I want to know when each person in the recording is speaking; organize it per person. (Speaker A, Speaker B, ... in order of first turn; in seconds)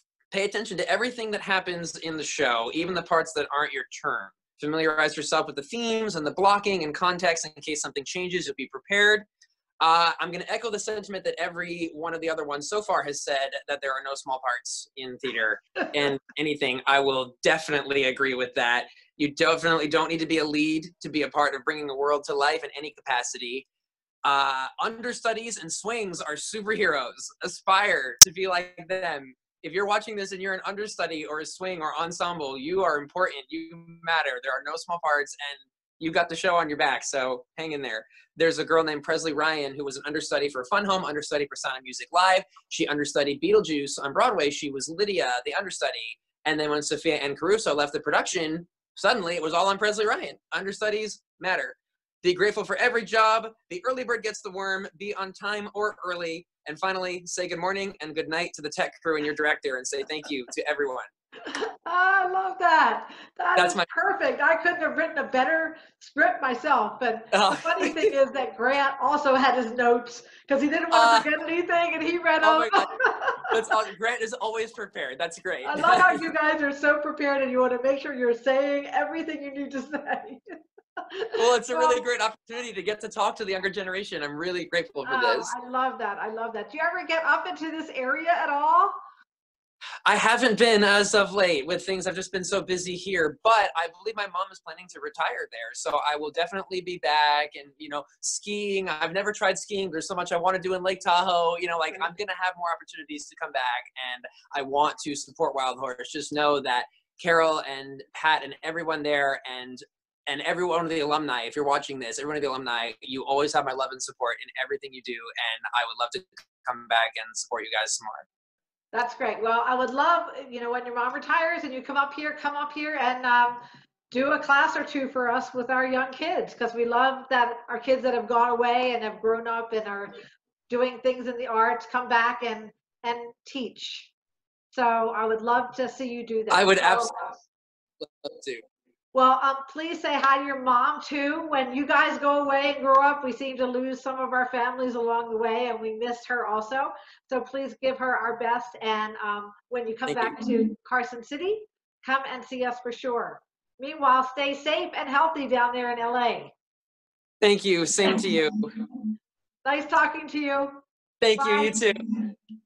Speaker A: 0.3-9.2, 9.8-23.6, 24.2-61.1, 63.5-63.9, 67.3-68.1, 70.9-71.3, 72.4-72.9, 73.5-76.3, 81.3-85.5, 90.0-118.2, 136.5-137.3, 138.0-138.6, 150.1-150.4, 157.4-158.7, 161.2-162.0
Speaker B: 61.5-73.4, 75.7-82.0, 85.0-89.0, 118.9-130.1, 130.7-134.1, 134.7-137.3, 139.1-156.5, 159.6-160.8, 161.4-161.8